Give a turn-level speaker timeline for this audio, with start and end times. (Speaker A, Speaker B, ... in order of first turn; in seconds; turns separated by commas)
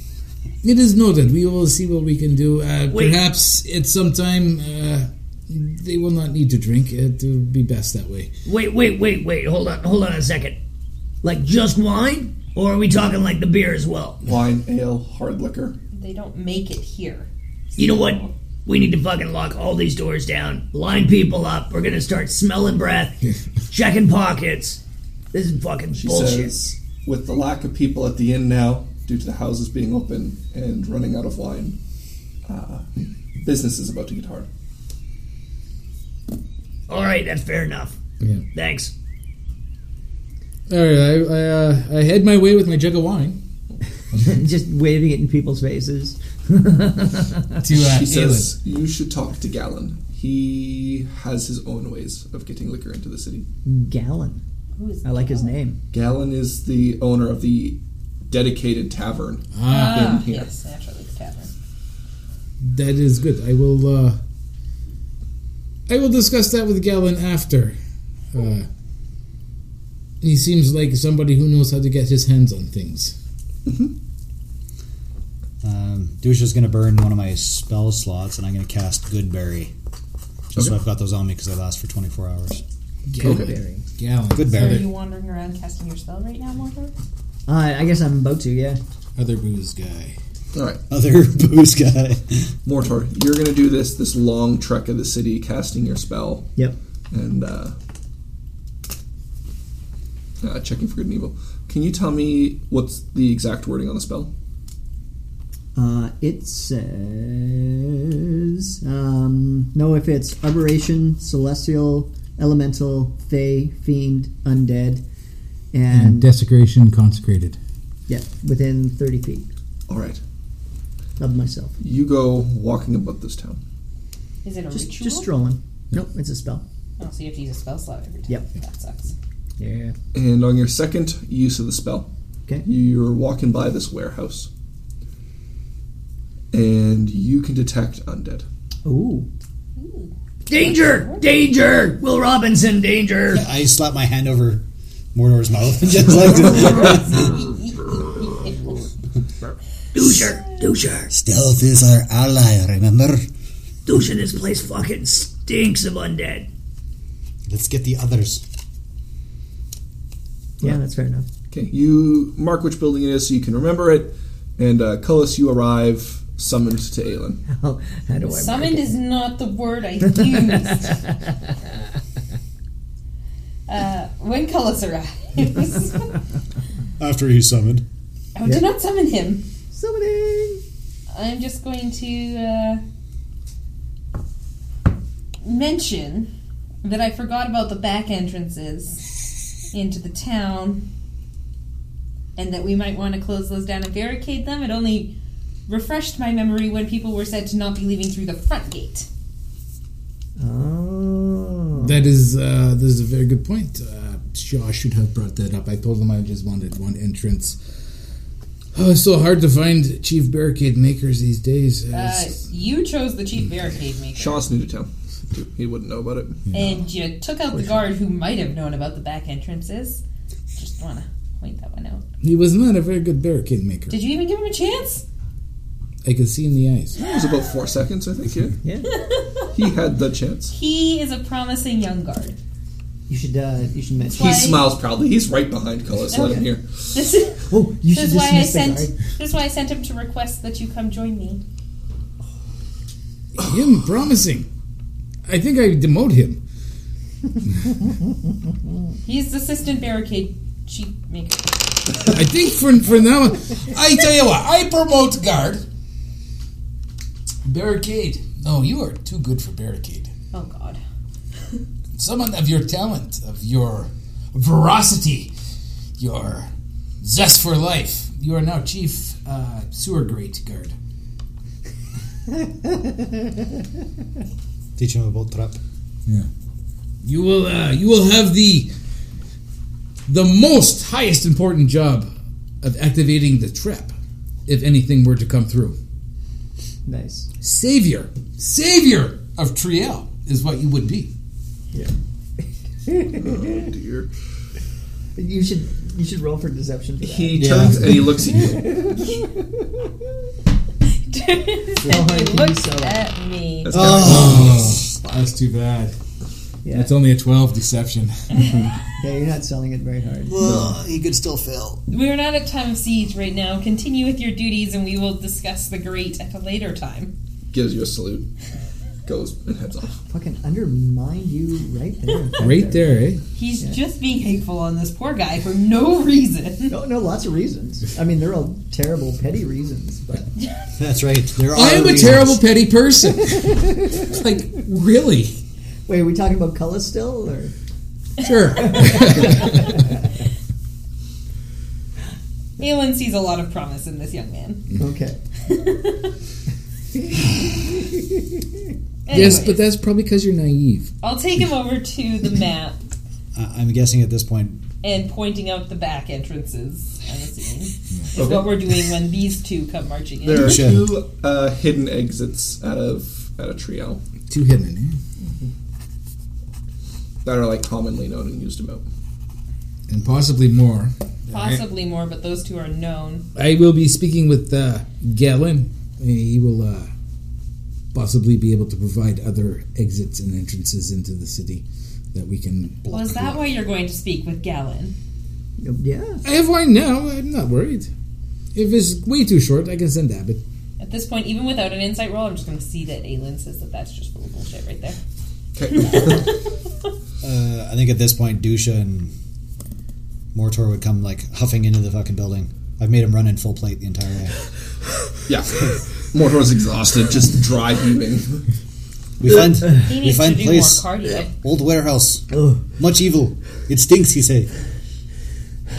Speaker A: 0.6-8.3, Speaker B: 2.9-3.2, Speaker B: 8.4-10.6, Speaker B: 11.2-14.2, Speaker C: 14.2-15.8, Speaker D: 15.9-18.3, Speaker B: 17.8-24.8, Speaker B: 25.3-26.5, Speaker C: 25.9-31.8, Speaker C: 32.5-34.5, Speaker B: 36.9-38.0, Speaker A: 38.2-38.5, Speaker B: 38.5-38.9, Speaker A: 40.7-43.4, Speaker E: 44.1-47.6, Speaker A: 47.6-48.5, Speaker C: 47.7-53.5, Speaker E: 53.6-54.4, Speaker D: 54.8-55.6, Speaker E: 55.0-55.8, Speaker C: 55.9-60.5, Speaker A: 59.5-60.2, Speaker D: 59.6-61.5, Speaker A: 62.6-64.2, Speaker A: 65.9-67.8, Speaker A: 68.3-68.7, Speaker A: 70.2-73.1, Speaker C: 73.7-73.9, Speaker F: 75.6-79.7, Speaker F: 80.5-82.6, Speaker A: 83.1-84.9, Speaker E: 83.2-83.8, Speaker C: 83.2-83.5, Speaker F: 84.3-84.8, Speaker D: 84.5-86.9, Speaker E: 87.5-88.8, Speaker A: 89.2-90.2, Speaker C: 90.5-90.8, Speaker F: 90.9-92.5, Speaker C: 92.6-96.5, Speaker C: 97.1-97.7, Speaker C: 100.4-104.3, Speaker E: 105.7-108.0, Speaker E: 108.7-115.0, Speaker E: 115.7-116.3, Speaker A: 115.9-117.6, Speaker E: 118.1-119.5, Speaker C: 119.9-120.2, Speaker E: 121.2-121.8, Speaker C: 121.8-123.6, Speaker D: 124.4-125.3, Speaker E: 124.7-126.6, Speaker D: 127.0-129.1, Speaker E: 129.6-129.9, Speaker C: 130.1-132.1, Speaker C: 132.6-134.5, Speaker C: 136.5-138.4, Speaker E: 138.8-139.3, Speaker D: 139.8-141.3, Speaker B: 140.5-143.5, Speaker F: 143.3-147.4, Speaker D: 146.6-148.8, Speaker B: 149.9-151.1, Speaker F: 151.1-153.3, Speaker B: 153.8-156.5, Speaker F: 157.4-158.4, Speaker E: 160.6-161.3, Speaker C: 161.5-167.4, Speaker E: 167.5-168.9, Speaker D: 168.2-171.0, Speaker E: 170.1-171.3, Speaker D: 173.7-176.2, Speaker F: 177.0-177.8, Speaker D: 178.3-179.4, Speaker E: 179.7-180.6, Speaker D: 181.1-182.8, Speaker D: 185.4-186.3, Speaker D: 186.8-189.1, Speaker D: 189.7-190.8, Speaker D: 192.3-195.1, Speaker D: 195.7-199.1, Speaker E: 200.4-202.0, Speaker A: 201.8-207.6, Speaker A: 208.7-212.4, Speaker D: 211.9-214.5, Speaker C: 214.2-216.4, Speaker A: 216.5-216.8, Speaker D: 216.5-220.0, Speaker E: 217.6-217.8, Speaker D: 220.5-222.0, Speaker A: 222.2-224.0, Speaker D: 223.9-225.0, Speaker A: 226.0-227.0, Speaker C: 226.9-228.6, Speaker E: 228.6-228.9, Speaker D: 228.9-229.6, Speaker C: 229.5-230.5, Speaker D: 230.5-232.3, Speaker E: 233.1-234.4, Speaker D: 234.1-234.7, Speaker C: 234.1-236.6, Speaker E: 236.1-236.5, Speaker D: 236.1-241.4, Speaker E: 237.5-238.9, Speaker A: 243.3-244.5, Speaker A: 245.2-246.4, Speaker D: 249.0-251.8, Speaker A: 252.0-255.6, Speaker A: 257.4-260.1, Speaker D: 260.3-260.8, Speaker A: 261.9-265.3, Speaker A: 266.0-266.5, Speaker A: 267.0-270.7, Speaker F: 274.8-275.6, Speaker A: 277.0-278.7, Speaker A: 280.1-282.1, Speaker A: 282.6-283.9, Speaker A: 284.5-285.8, Speaker E: 286.9-287.3, Speaker A: 287.4-291.1, Speaker E: 291.7-293.6, Speaker C: 293.1-294.1, Speaker E: 295.1-299.2, Speaker C: 297.0-299.0, Speaker F: 297.4-298.3, Speaker D: 301.1-303.7, Speaker E: 301.8-303.1, Speaker C: 303.6-305.1, Speaker F: 303.7-304.8, Speaker A: 304.0-305.9, Speaker E: 306.6-306.9, Speaker A: 306.7-308.7, Speaker E: 309.0-310.4, Speaker F: 310.2-311.8, Speaker C: 310.4-310.8, Speaker D: 311.9-317.1, Speaker C: 317.5-318.3, Speaker C: 319.1-320.0, Speaker E: 320.1-323.8, Speaker A: 322.4-323.2, Speaker D: 323.4-326.7, Speaker E: 326.7-330.3, Speaker F: 330.8-332.4, Speaker A: 331.5-335.4, Speaker E: 335.9-337.5, Speaker A: 338.2-339.8, Speaker E: 338.8-339.8, Speaker D: 342.6-344.6, Speaker E: 344.8-345.2, Speaker D: 345.5-346.1, Speaker D: 349.1-349.6, Speaker A: 349.1-350.9, Speaker D: 351.0-352.8, Speaker F: 353.3-354.6, Speaker D: 354.8-360.6, Speaker C: 358.2-358.5, Speaker C: 360.2-364.0, Speaker F: 360.3-361.0, Speaker A: 364.3-365.0, Speaker C: 367.2-368.8, Speaker A: 369.9-371.6, Speaker D: 371.3-373.2, Speaker A: 373.3-376.9, Speaker A: 377.9-382.8, Speaker F: 382.8-383.5, Speaker D: 382.9-384.9, Speaker E: 385.6-386.2, Speaker A: 386.2-387.9, Speaker A: 388.5-390.4, Speaker D: 390.8-395.0, Speaker C: 395.5-396.3, Speaker D: 395.7-396.2, Speaker F: 397.2-399.1, Speaker F: 400.3-404.3, Speaker C: 405.3-408.4, Speaker F: 409.2-414.5, Speaker D: 409.7-411.3